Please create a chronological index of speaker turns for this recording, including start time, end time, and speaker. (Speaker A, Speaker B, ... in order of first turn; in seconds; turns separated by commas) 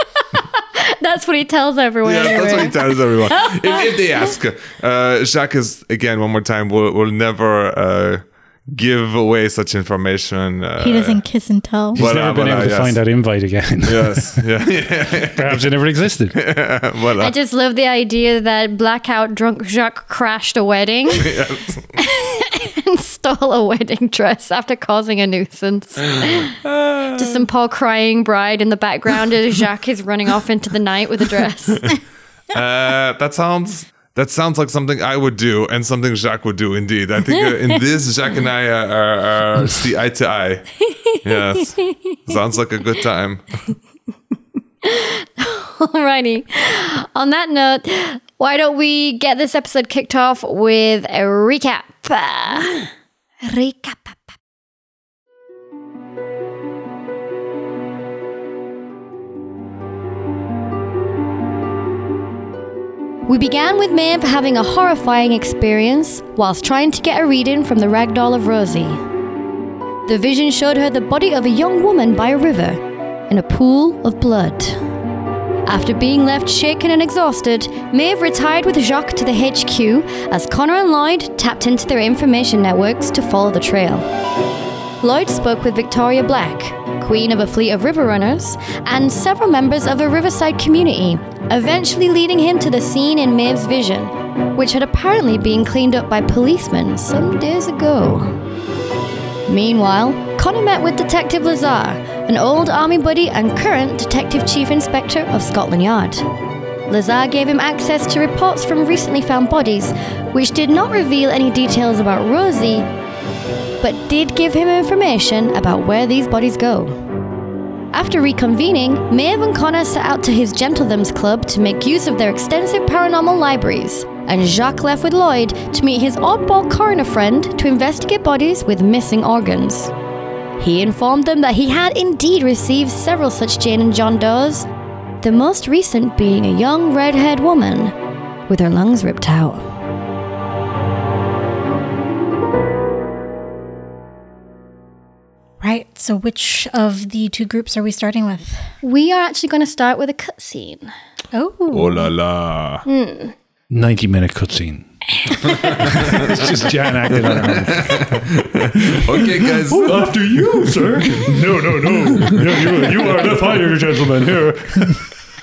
Speaker A: 0.4-3.9, Speaker B: 2.0-11.2, Speaker C: 10.8-12.0, Speaker B: 11.9-13.0, Speaker D: 11.9-14.4, Speaker B: 13.8-15.7, Speaker D: 15.2-16.4, Speaker B: 16.3-17.3, Speaker A: 17.2-21.4, Speaker B: 21.1-21.9, Speaker A: 21.9-26.5, Speaker B: 26.6-27.4, Speaker A: 27.1-31.9, Speaker B: 32.5-43.5, Speaker A: 37.3-37.7, Speaker A: 44.8-52.9, Speaker A: 53.4-54.3, Speaker A: 63.3-69.0, Speaker A: 70.0-74.8, Speaker A: 75.7-84.1, Speaker A: 85.0-98.4, Speaker A: 99.5-106.2, Speaker A: 106.9-112.9, Speaker A: 113.8-117.0, Speaker A: 117.9-129.9, Speaker A: 130.6-134.7, Speaker A: 135.2-137.9, Speaker A: 138.5-139.6, Speaker C: 145.6-148.6, Speaker A: 148.8-150.9, Speaker C: 151.3-152.1, Speaker B: 151.7-152.8, Speaker A: 152.8-153.3, Speaker D: 153.7-154.9, Speaker D: 155.5-158.2, Speaker B: 155.6-156.3, Speaker B: 157.1-160.2, Speaker D: 158.7-165.1, Speaker B: 162.0-162.4